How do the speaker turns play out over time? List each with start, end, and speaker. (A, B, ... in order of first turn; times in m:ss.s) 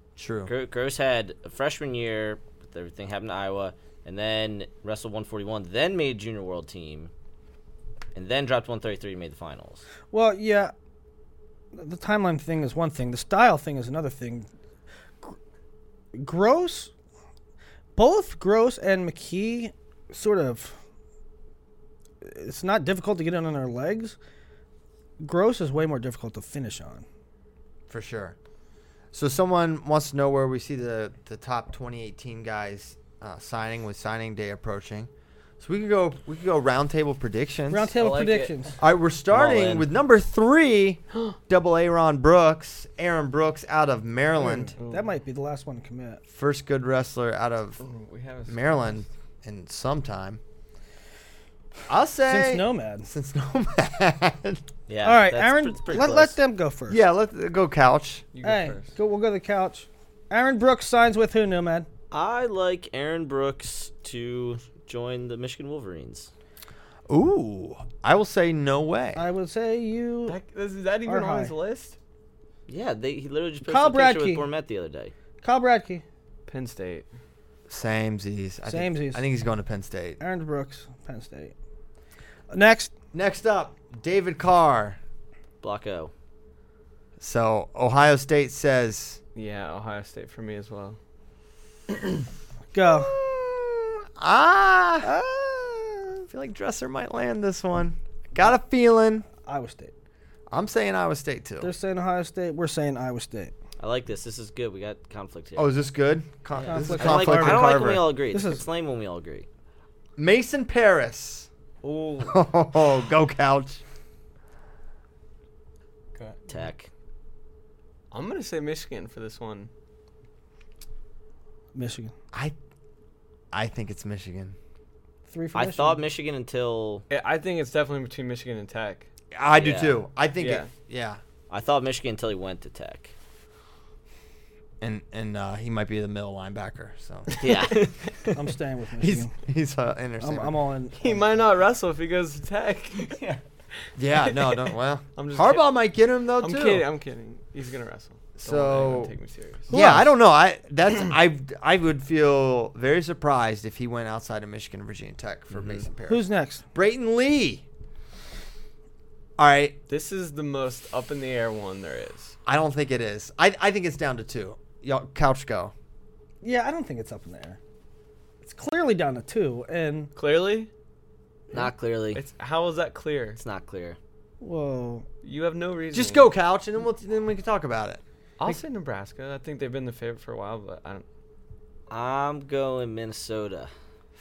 0:00.2-0:00.5 A
0:00.5-0:07.1 B
0:08.1-0:09.8 B
0:10.1-0:10.7 C
0:11.7-0:14.5 C
0:16.1-0:16.9 C
0:18.0-0:20.8 C
0:22.2-0:24.2 C
0:25.2-0:27.0 C
0:27.9-0:28.4 A
0:29.1-0:35.1 A
0:35.6-0:37.9 A
0:37.7-0:38.7 C
0:37.9-0:38.7 D
0:38.8-0:44.7 A
0:39.3-0:39.9 B
0:44.4-0:45.1 D
0:44.8-0:46.2 C
0:46.3-0:47.8 A
0:47.8-0:49.0 D
0:48.5-0:50.4 A
0:51.9-0:54.6 A
0:52.3-0:53.1 C
0:54.9-0:56.4 B
0:55.0-0:57.0 C
0:56.9-0:58.2 A
0:58.3-0:58.9 D
0:58.4-1:01.9 C
1:02.1-1:06.3 B
1:07.1-1:09.2 A
1:09.1-1:10.4 C
1:10.3-1:12.0 D
1:11.0-1:11.5 C
1:12.7-1:15.1 B
1:13.6-1:14.4 C
1:15.4-1:16.0 C
1:16.5-1:17.1 D
1:17.7-1:20.2 A
1:18.6-1:19.2 C
1:20.2-1:21.5 C
1:22.5-1:22.9 C
1:23.1-1:25.0 A
1:25.6-1:26.1 B
1:27.2-1:29.2 A
1:29.3-1:31.0 D
1:32.7-1:33.2 C
1:32.9-1:35.1 A
1:35.0-1:36.1 C
1:36.3-1:39.3 A
1:39.4-1:39.9 C
1:40.5-1:41.7 A
1:41.6-1:43.5 C
1:43.8-1:45.7 B
1:45.6-1:48.1 A
1:46.6-1:49.4 B
1:46.6-1:48.6 C
1:50.2-1:51.5 A
1:51.8-1:52.3 D
1:52.2-1:53.8 A
1:56.1-1:56.5 D
1:56.5-1:56.9 B
1:58.1-1:59.7 D
2:01.7-2:02.1 C
2:03.5-2:04.6 A
2:05.3-2:06.0 C
2:05.5-2:07.0 B
2:07.1-2:09.1 D
2:09.3-2:11.2 A
2:09.6-2:10.0 B
2:10.4-2:10.7 D
2:11.5-2:13.1 B
2:14.8-2:17.4 A
2:17.4-2:18.2 B
2:18.3-2:19.3 C
2:19.0-2:20.5 A
2:20.2-2:21.4 C
2:21.0-2:23.4 D
2:24.0-2:26.9 A
2:24.2-2:25.7 D
2:26.4-2:29.7 D
2:28.4-2:29.1 A
2:29.7-2:30.1 C
2:29.7-2:37.6 A
2:35.5-2:35.8 D
2:36.1-2:36.6 C
2:39.4-2:39.8 A
2:39.9-2:42.4 D
2:42.4-2:45.7 A
2:46.4-2:47.6 C
2:48.4-2:50.1 C
2:50.2-2:50.7 D
2:51.5-2:52.2 B
2:52.1-2:53.4 D
2:53.4-2:54.0 B
2:54.4-2:55.1 C
2:55.2-2:56.3 D
2:55.9-2:58.6 A
2:58.4-3:01.0 D
3:01.9-3:03.7 B